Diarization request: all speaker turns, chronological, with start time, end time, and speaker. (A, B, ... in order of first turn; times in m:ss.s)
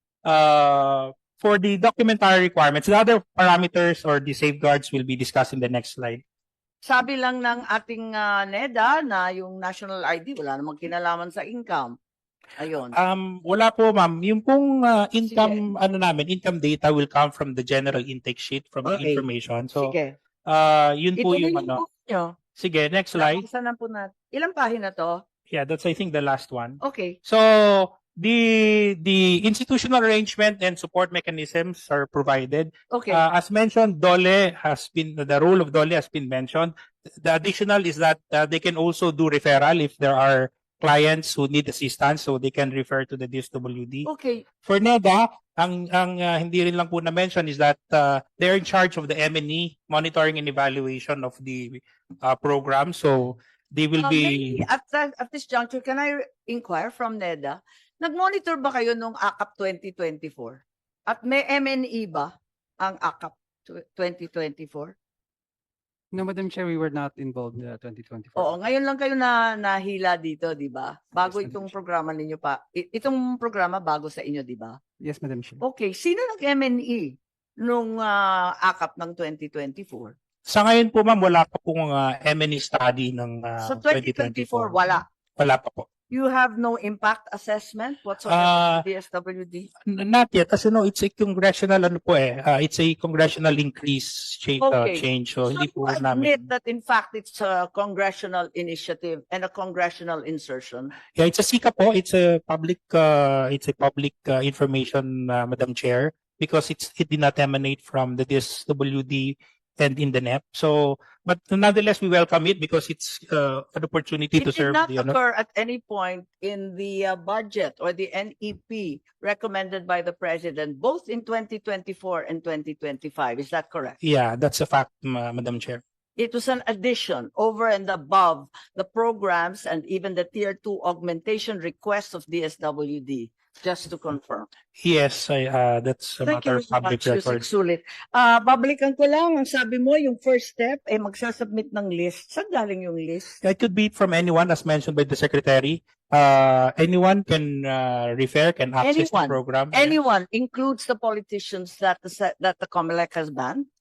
0:00.2-0:06.2 A
0:06.8-0:12.0 B
0:12.6-0:13.0 B
0:12.9-0:19.9 A
0:15.3-0:15.6 B
0:18.8-0:19.2 B
0:19.8-0:20.1 B
0:20.4-0:21.8 A
0:21.2-0:22.4 B
0:22.6-0:23.4 A
0:23.1-0:25.2 B
0:25.5-0:44.1 A
0:26.8-0:27.2 B
0:32.9-0:33.2 B
0:44.0-0:44.4 B
0:44.6-0:54.6 A
0:54.0-1:02.3 B
1:02.8-1:04.9 B
1:06.1-1:08.6 C
1:08.4-1:14.8 B
1:11.2-1:11.7 C
1:15.0-1:15.6 C
1:15.6-1:20.1 B
1:20.5-1:24.8 A
1:23.6-1:25.0 B
1:25.4-1:25.9 A
1:26.1-1:29.7 B
1:28.3-1:28.8 A
1:29.9-1:36.4 A
1:34.6-1:40.9 B
1:41.2-1:55.2 A
1:54.4-2:04.0 B
2:04.0-2:05.8 A
2:06.2-2:14.5 B
2:14.8-2:17.4 A
2:16.2-2:23.4 B
2:23.4-2:30.0 A
2:28.8-2:33.6 B